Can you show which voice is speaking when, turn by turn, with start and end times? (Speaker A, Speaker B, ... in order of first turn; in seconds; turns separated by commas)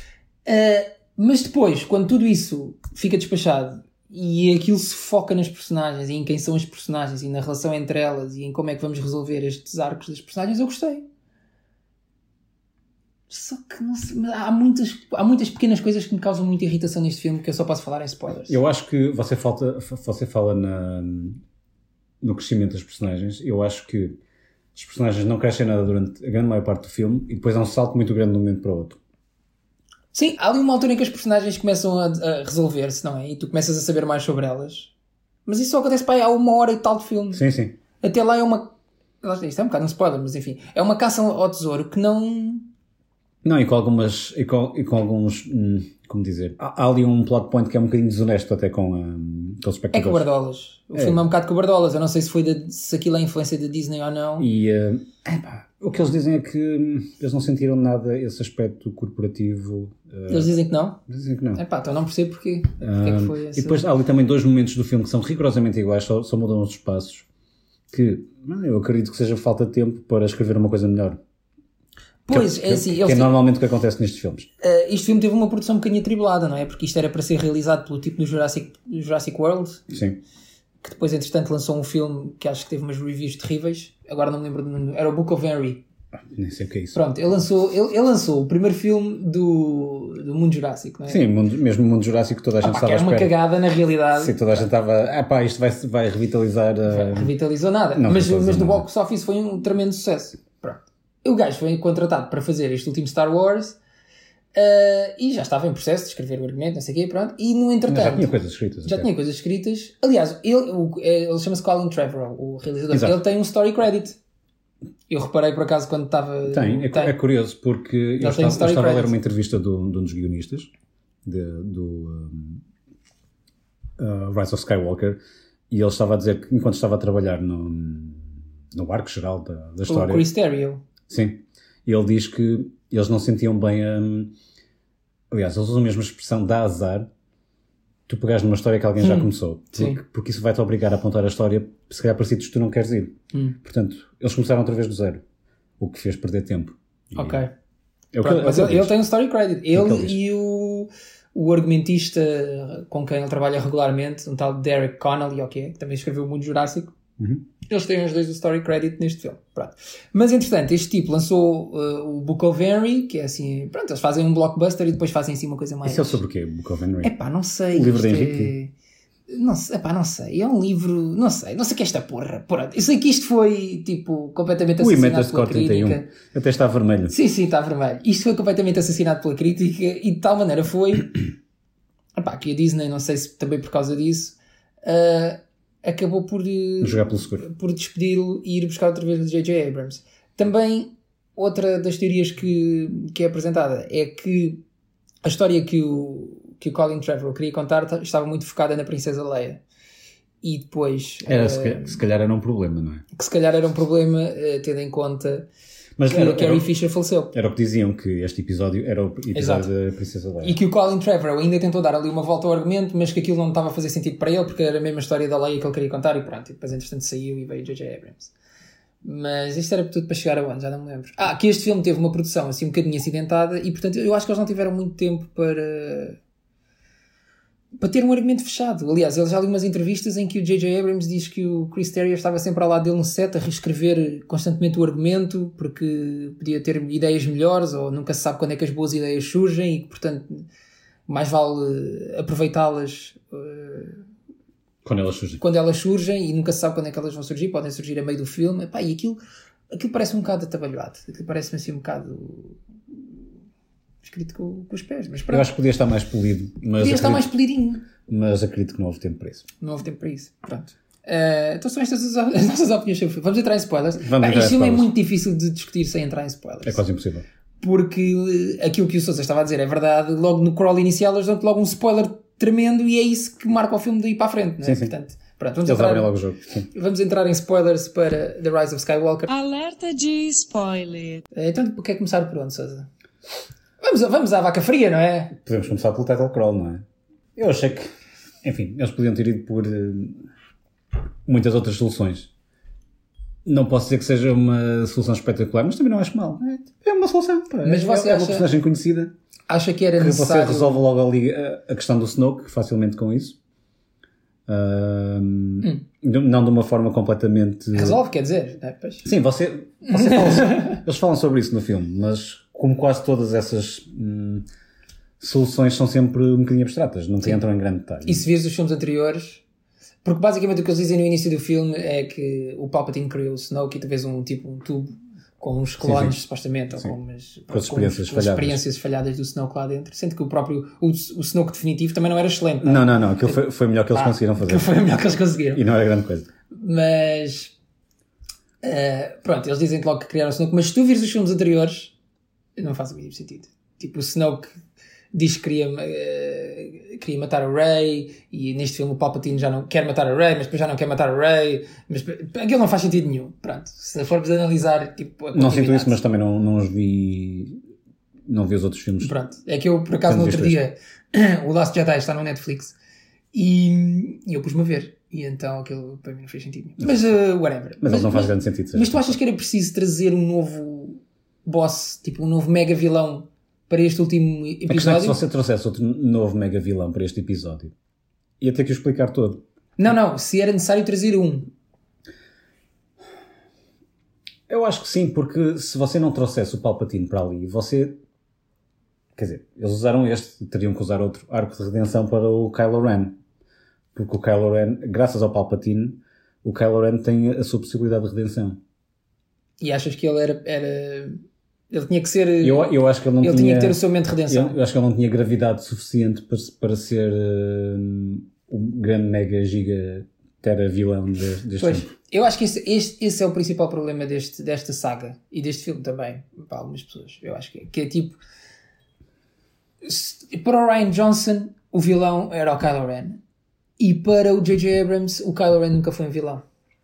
Speaker A: 0.4-11.0, Speaker A: 13.3-18.6, Speaker B: 18.4-21.4, Speaker B: 22.2-24.2, Speaker B: 24.7-29.0, Speaker A: 30.1-34.9, Speaker A: 35.5-37.4, Speaker B: 37.3-37.8, Speaker A: 38.0-42.7, Speaker B: 43.4-50.2, Speaker A: 49.9-54.5, Speaker B: 50.9-51.2, Speaker B: 54.4-60.5, Speaker A: 60.3-61.0, Speaker B: 61.1-61.6, Speaker A: 61.5-63.8, Speaker B: 62.8-67.2, Speaker B: 67.9-71.2, Speaker A: 72.2-73.3, Speaker B: 72.3-74.5, Speaker A: 74.6-79.9, Speaker B: 79.9-80.2, Speaker A: 80.8-85.8, Speaker B: 86.3-87.0, Speaker A: 86.9-91.2, Speaker B: 91.1-93.4, Speaker A: 92.6-94.6, Speaker B: 94.1-97.3, Speaker A: 96.9-103.8, Speaker B: 98.0-98.8, Speaker A: 104.5-108.3, Speaker B: 107.9-109.1, Speaker A: 108.8-114.2, Speaker B: 112.9-113.2, Speaker A: 115.1-117.2, Speaker B: 116.5-120.7, Speaker A: 118.2-119.1, Speaker B: 121.2-122.6, Speaker B: 124.0-130.3, Speaker A: 129.9-130.8, Speaker B: 131.1-134.3, Speaker B: 135.3-137.1, Speaker B: 138.1-145.2, Speaker A: 139.0-140.0, Speaker B: 145.8-147.4, Speaker A: 147.1-147.5, Speaker B: 148.1-149.0, Speaker A: 148.2-156.9, Speaker B: 149.7-150.2, Speaker A: 157.7-166.2, Speaker B: 165.8-167.1, Speaker A: 167.0-168.7, Speaker B: 167.7-168.5, Speaker A: 169.3-176.1, Speaker B: 174.8-177.1, Speaker A: 177.1-181.3, Speaker A: 182.2-194.6, Speaker B: 186.8-187.4, Speaker A: 195.2-199.6, Speaker A: 200.4-202.0, Speaker B: 201.2-203.0, Speaker A: 203.1-205.5, Speaker B: 206.0-206.7, Speaker A: 206.1-207.3, Speaker B: 207.3-210.6, Speaker A: 209.3-209.7, Speaker A: 210.4-218.3, Speaker A: 219.0-226.2, Speaker A: 227.8-240.4, Speaker A: 241.1-244.0, Speaker B: 244.8-245.4, Speaker A: 245.4-249.2, Speaker A: 249.7-252.6, Speaker A: 254.0-255.5, Speaker B: 255.3-257.3, Speaker A: 256.8-257.9, Speaker B: 258.0-259.5, Speaker A: 259.6-266.8, Speaker B: 264.0-264.9, Speaker B: 266.6-267.2, Speaker A: 267.6-276.1, Speaker B: 274.6-274.9, Speaker B: 275.6-276.7, Speaker A: 276.7-279.3, Speaker C: 279.3-281.2, Speaker A: 281.3-282.9, Speaker A: 283.8-285.4, Speaker B: 285.3-286.8, Speaker B: 287.4-287.9, Speaker B: 288.4-290.3, Speaker B: 291.2-292.3, Speaker B: 293.4-299.1, Speaker A: 297.6-298.4, Speaker A: 299.5-300.8, Speaker B: 300.0-303.4, Speaker B: 304.5-308.0, Speaker A: 307.7-309.1, Speaker B: 309.0-314.4, Speaker A: 309.8-310.8, Speaker B: 315.2-318.2, Speaker A: 318.1-319.4, Speaker A: 320.0-333.4, Speaker B: 325.8-326.2, Speaker B: 327.5-328.6, Speaker B: 332.6-334.8, Speaker A: 333.9-335.6, Speaker B: 335.5-336.3, Speaker A: 336.5-337.5, Speaker A: 338.6-341.9, Speaker A: 342.6-344.5, Speaker A: 345.1-356.0, Speaker B: 355.3-357.6, Speaker B: 358.3-359.1, Speaker A: 359.0-362.7, Speaker B: 360.0-360.6, Speaker A: 363.3-375.2, Speaker B: 366.8-367.1, Speaker B: 367.8-369.2, Speaker B: 374.7-377.7, Speaker B: 378.4-379.4, Speaker A: 379.8-381.5, Speaker B: 384.5-388.0, Speaker B: 389.1-393.2, Speaker B: 393.9-398.6, Speaker A: 399.6-404.6, Speaker B: 402.4-411.9, Speaker A: 411.6-418.2, Speaker A: 419.8-423.2, Speaker A: 423.8-426.4